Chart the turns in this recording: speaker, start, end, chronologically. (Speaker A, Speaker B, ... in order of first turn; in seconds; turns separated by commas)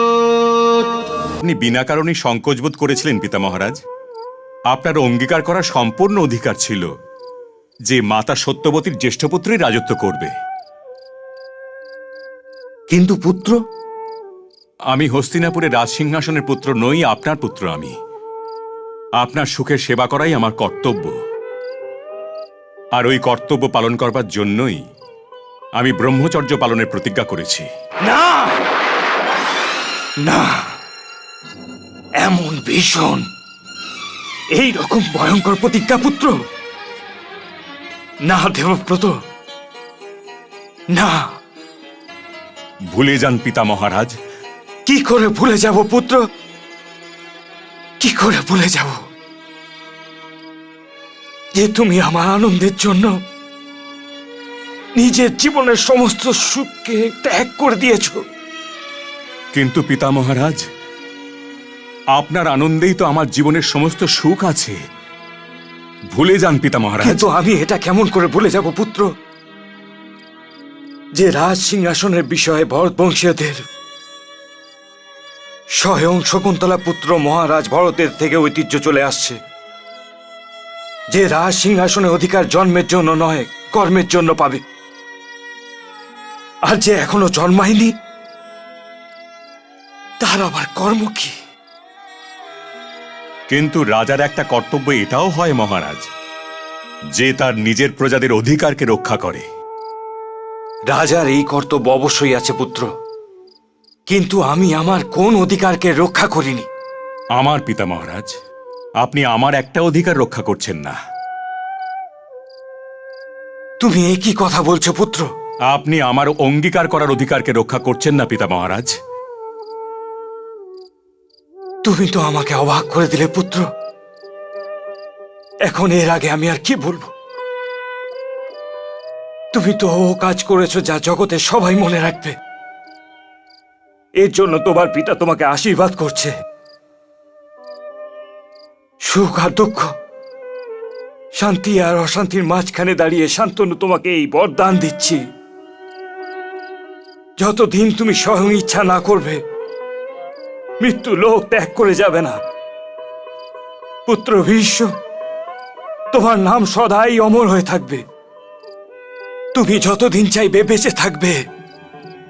Speaker A: 1.4-3.8, Speaker A: 4.7-6.8, Speaker A: 7.9-10.3, Speaker B: 12.9-13.6, Speaker A: 14.9-17.9, Speaker A: 19.2-21.1, Speaker A: 22.9-24.8, Speaker A: 25.8-27.7, Speaker B: 28.0-28.6, Speaker B: 30.2-30.7, Speaker B: 32.2-33.2, Speaker B: 34.5-36.3, Speaker B: 38.2-39.1, Speaker B: 40.9-41.3, Speaker A: 42.9-44.1, Speaker B: 44.8-46.2, Speaker B: 48.0-49.0, Speaker B: 51.5-53.1, Speaker B: 55.0-58.2, Speaker A: 59.5-60.6, Speaker A: 62.1-64.8, Speaker A: 66.1-67.2, Speaker B: 67.0-69.1, Speaker B: 71.1-73.6, Speaker B: 75.7-79.4, Speaker B: 81.1-84.6, Speaker B: 86.6-87.9, Speaker B: 90.2-91.3, Speaker A: 93.5-96.1, Speaker A: 97.1-99.4, Speaker B: 100.9-102.9, Speaker B: 104.1-106.7, Speaker A: 107.3-108.3, Speaker A: 109.0-110.9, Speaker B: 113.8-115.3, Speaker A: 115.7-118.9, Speaker B: 121.8-123.7, Speaker B: 125.6-127.1, Speaker B: 129.5-132.3, Speaker B: 134.2-136.3, Speaker B: 139.0-139.9, Speaker B: 141.3-145.2, Speaker B: 147.4-149.4, Speaker B: 150.8-152.4, Speaker B: 154.1-154.9, Speaker B: 156.1-158.0, Speaker B: 159.5-161.4